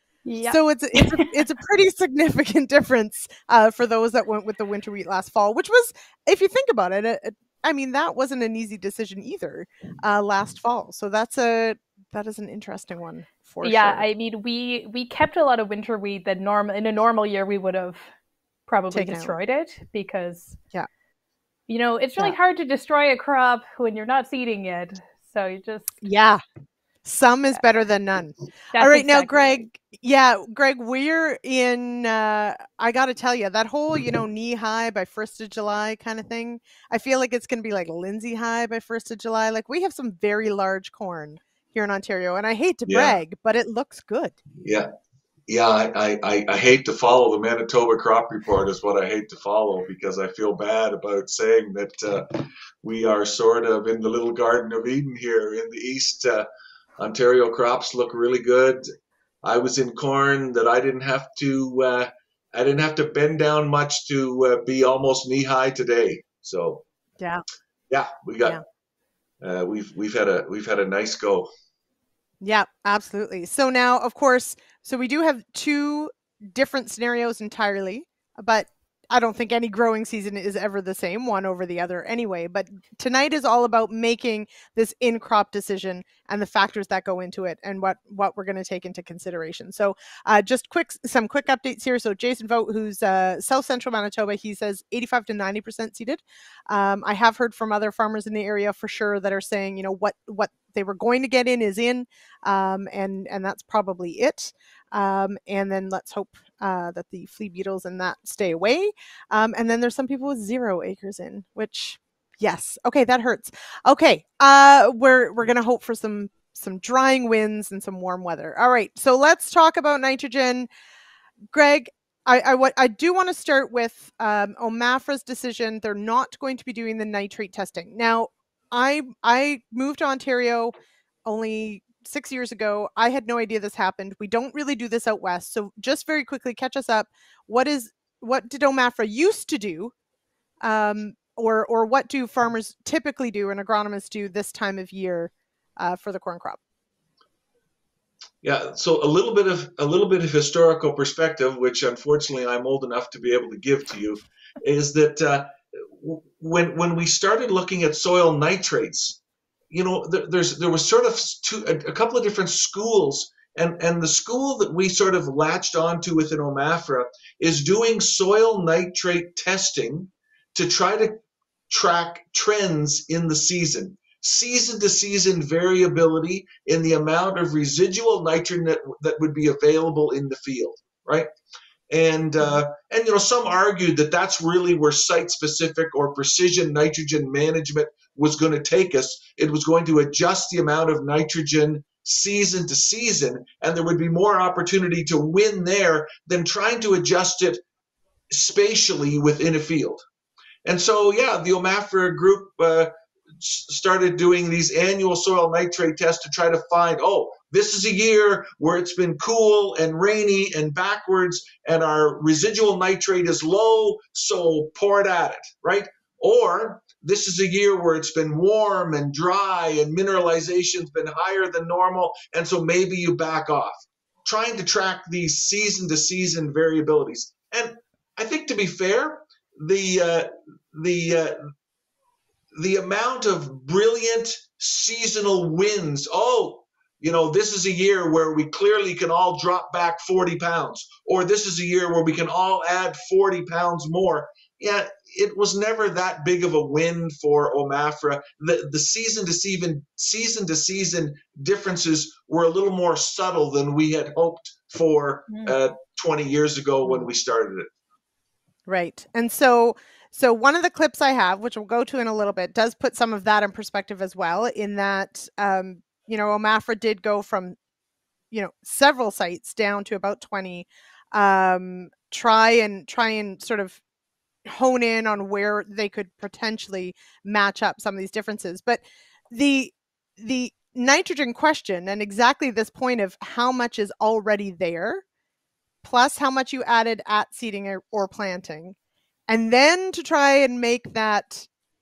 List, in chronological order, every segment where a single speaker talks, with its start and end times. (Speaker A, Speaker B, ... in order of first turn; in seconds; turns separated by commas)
Speaker A: 0.2-1.4, Speaker B: 0.5-14.1, Speaker A: 13.6-18.1, Speaker A: 18.7-20.6, Speaker B: 18.9-19.3, Speaker A: 21.7-26.0, Speaker B: 26.0-26.4, Speaker B: 27.0-44.4, Speaker A: 28.7-29.6, Speaker C: 42.9-43.2, Speaker C: 44.6-44.9, Speaker C: 45.5-56.5, Speaker C: 57.0-58.9, Speaker C: 59.4-66.8, Speaker B: 67.2-67.4, Speaker C: 67.9-68.6, Speaker C: 69.4-71.5, Speaker B: 72.4-120.7, Speaker B: 121.5-130.7, Speaker B: 131.2-139.9, Speaker B: 140.6-146.6, Speaker C: 148.4-159.2, Speaker C: 159.7-171.2, Speaker C: 171.7-181.3, Speaker C: 181.9-197.6, Speaker C: 198.3-200.0, Speaker C: 200.6-231.5, Speaker C: 232.5-257.7, Speaker B: 258.7-267.6, Speaker B: 268.3-273.8, Speaker B: 274.4-285.0, Speaker B: 285.8-288.8, Speaker B: 289.3-291.5